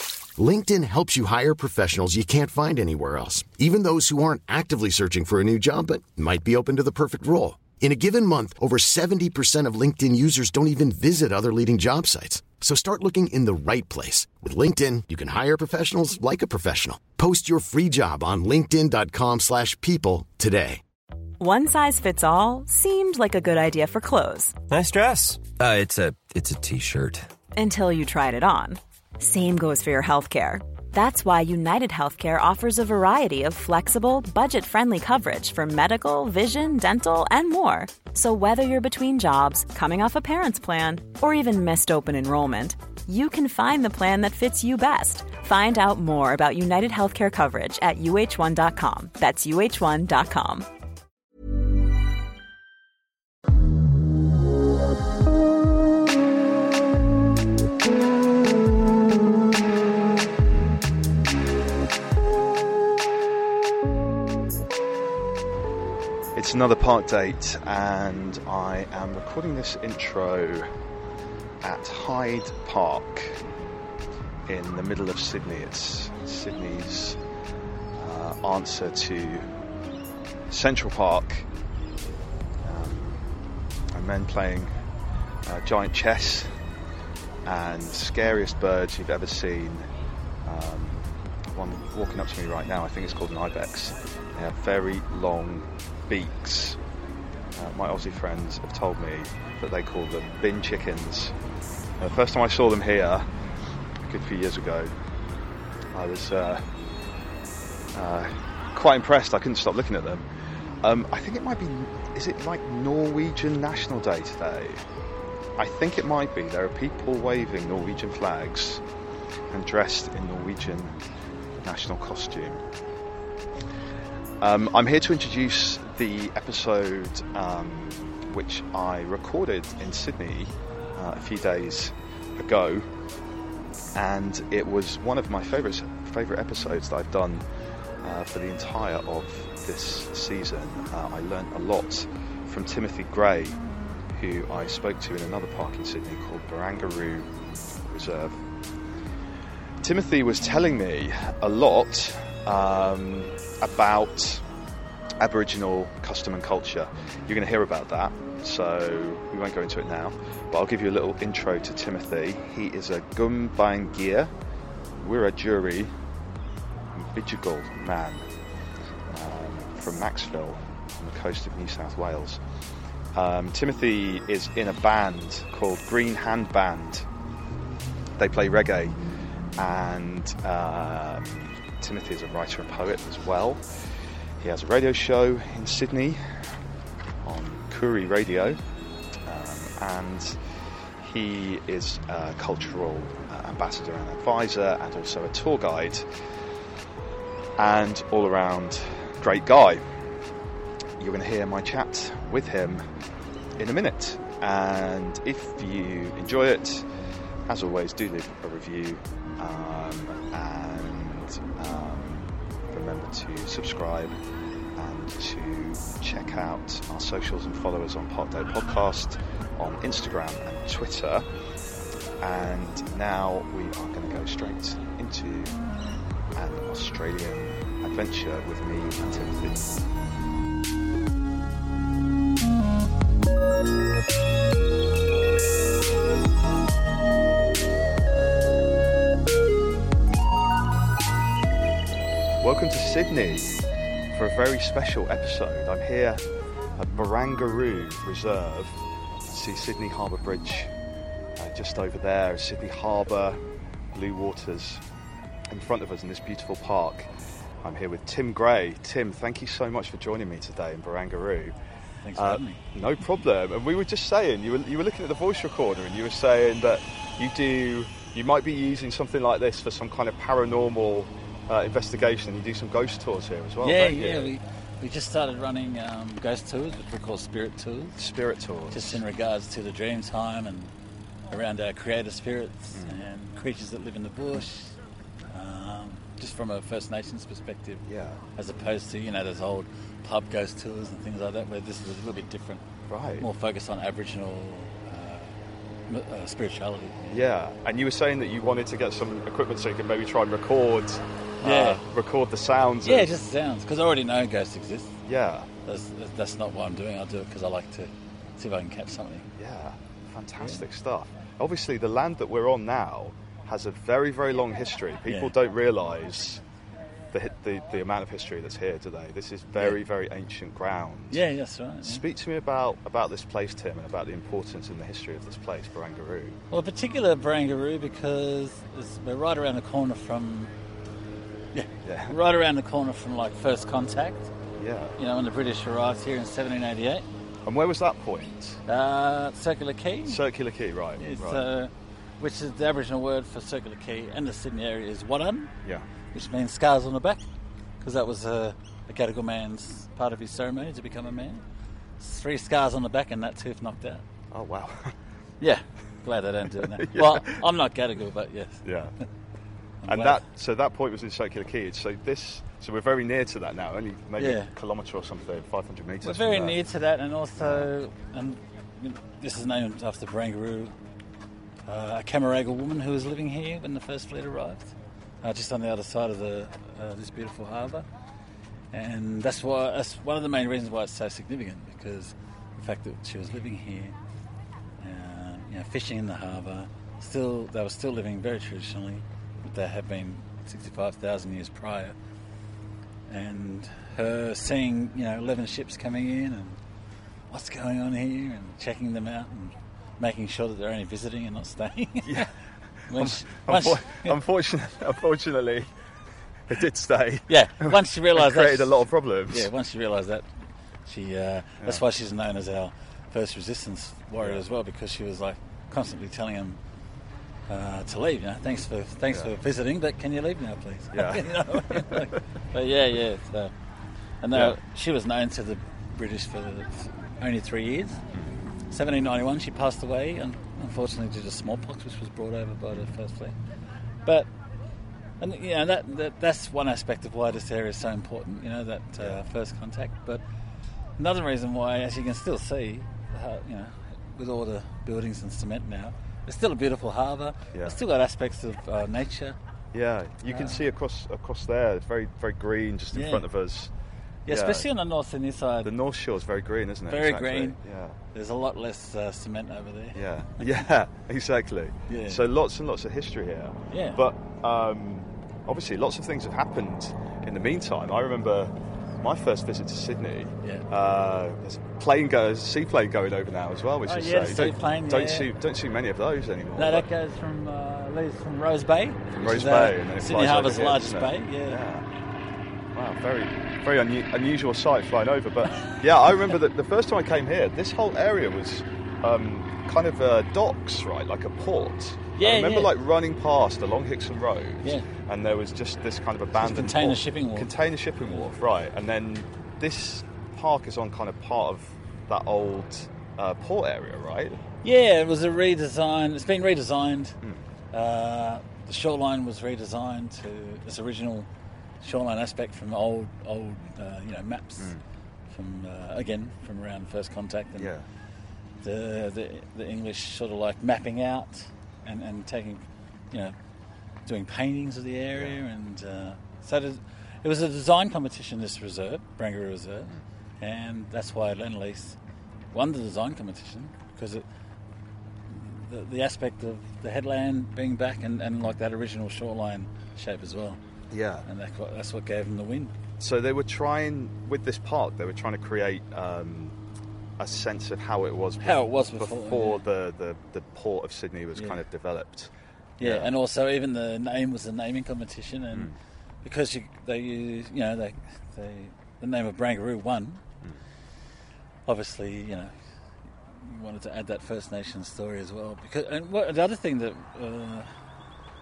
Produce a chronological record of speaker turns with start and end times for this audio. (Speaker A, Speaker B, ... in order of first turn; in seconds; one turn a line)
Speaker A: 0.4-20.8
Speaker B: 21.4-24.6
Speaker C: 24.7-27.3
Speaker B: 27.6-50.7
Speaker D: 66.3-70.7
Speaker D: 71.6-73.4
Speaker D: 74.5-77.2
Speaker D: 78.0-79.5
Speaker D: 80.5-81.5
Speaker D: 82.6-83.2
Speaker D: 83.9-84.7
Speaker D: 85.5-86.5
Speaker D: 87.5-89.9
Speaker D: 90.5-96.8
Speaker D: 97.6-101.3
Speaker D: 102.0-103.3
Speaker D: 104.1-104.9
Speaker D: 105.9-106.6
Speaker D: 108.0-110.2
Speaker D: 110.8-114.8
Speaker D: 115.6-118.8
Speaker D: 119.5-120.9
Speaker D: 121.6-122.6
Speaker D: 124.4-132.9
Speaker D: 133.9-137.4
Speaker D: 138.0-143.6
Speaker D: 144.1-147.3
Speaker D: 147.9-148.4
Speaker D: 149.8-154.4
Speaker D: 155.2-164.3
Speaker D: 165.0-165.9
Speaker D: 166.9-168.3
Speaker D: 169.1-172.4
Speaker D: 173.2-177.1
Speaker D: 178.2-179.0
Speaker D: 179.6-183.7
Speaker D: 184.4-186.2
Speaker D: 187.2-188.6
Speaker D: 189.3-190.4
Speaker D: 191.0-196.1
Speaker D: 197.6-199.8
Speaker D: 201.0-202.9
Speaker D: 203.6-206.9
Speaker D: 207.5-214.2
Speaker D: 214.8-221.3
Speaker D: 222.2-225.6
Speaker D: 226.4-229.7
Speaker D: 242.4-243.6
Speaker D: 244.1-246.2
Speaker D: 246.8-250.7
Speaker D: 251.4-253.4
Speaker D: 253.9-254.8
Speaker D: 255.5-257.1
Speaker D: 257.6-261.6
Speaker E: 262.0-262.6
Speaker D: 262.2-274.3
Speaker E: 273.6-278.0
Speaker D: 278.0-279.0
Speaker E: 278.7-280.7
Speaker E: 281.3-284.8
Speaker D: 282.8-283.0
Speaker E: 285.3-287.8
Speaker D: 287.9-288.2
Speaker E: 288.4-292.6
Speaker D: 292.9-293.3
Speaker E: 293.2-295.4
Speaker E: 295.9-297.2
Speaker D: 297.1-303.1
Speaker E: 301.4-301.8
Speaker E: 302.8-305.0
Speaker D: 305.1-305.5
Speaker E: 305.6-309.3
Speaker D: 309.4-316.4
Speaker E: 315.1-315.3
Speaker D: 317.1-321.2
Speaker E: 321.1-322.0
Speaker D: 321.8-326.4
Speaker E: 326.5-330.5
Speaker E: 331.5-334.3
Speaker D: 331.9-332.2
Speaker D: 334.6-335.0
Speaker E: 335.0-337.1
Speaker D: 337.5-338.6
Speaker E: 338.7-340.2
Speaker D: 340.1-341.4
Speaker E: 341.0-345.5
Speaker E: 346.1-347.2
Speaker E: 347.8-351.4
Speaker E: 352.0-354.0
Speaker D: 354.3-354.9
Speaker E: 355.4-358.7
Speaker D: 356.6-357.4
Speaker D: 358.6-358.9
Speaker E: 359.8-360.2
Speaker D: 359.9-366.6
Speaker E: 364.2-364.5
Speaker E: 366.0-370.8
Speaker D: 367.4-367.7
Speaker E: 371.7-377.9
Speaker E: 378.7-384.0
Speaker E: 384.8-392.0
Speaker E: 393.1-396.6
Speaker E: 397.3-402.3
Speaker D: 402.0-402.3
Speaker E: 402.9-404.2
Speaker D: 402.9-405.7
Speaker D: 406.5-409.5
Speaker E: 407.3-410.3
Speaker E: 410.9-416.6
Speaker E: 417.5-423.5
Speaker D: 420.9-422.1
Speaker E: 424.2-428.0
Speaker E: 428.7-433.4
Speaker E: 434.1-434.3
Speaker E: 435.2-440.2
Speaker E: 441.0-449.4
Speaker D: 449.7-453.7
Speaker E: 450.3-450.6
Speaker E: 452.9-453.2
Speaker E: 454.3-455.7
Speaker D: 454.3-454.7
Speaker D: 455.6-458.0
Speaker E: 456.9-457.6
Speaker E: 458.1-460.6
Speaker D: 459.9-476.9
Speaker E: 461.9-462.2
Speaker E: 463.7-464.0
Speaker E: 473.9-475.3
Speaker E: 476.6-481.6
Speaker D: 479.1-481.9
Speaker D: 482.8-504.4
Speaker E: 492.2-492.7
Speaker E: 496.4-497.5
Speaker E: 504.6-507.2
Speaker E: 507.7-511.3
Speaker E: 511.8-514.8
Speaker E: 515.3-517.7
Speaker D: 517.6-517.9
Speaker E: 518.6-523.4
Speaker E: 524.1-532.0
Speaker E: 532.5-534.3
Speaker E: 535.3-540.6
Speaker D: 540.9-541.3
Speaker E: 541.2-542.8
Speaker D: 543.0-546.5
Speaker D: 547.2-553.1
Speaker E: 548.4-549.7
Speaker E: 551.4-551.6
Speaker E: 552.8-555.7
Speaker E: 556.2-560.2
Speaker E: 561.7-562.5
Speaker E: 563.4-567.7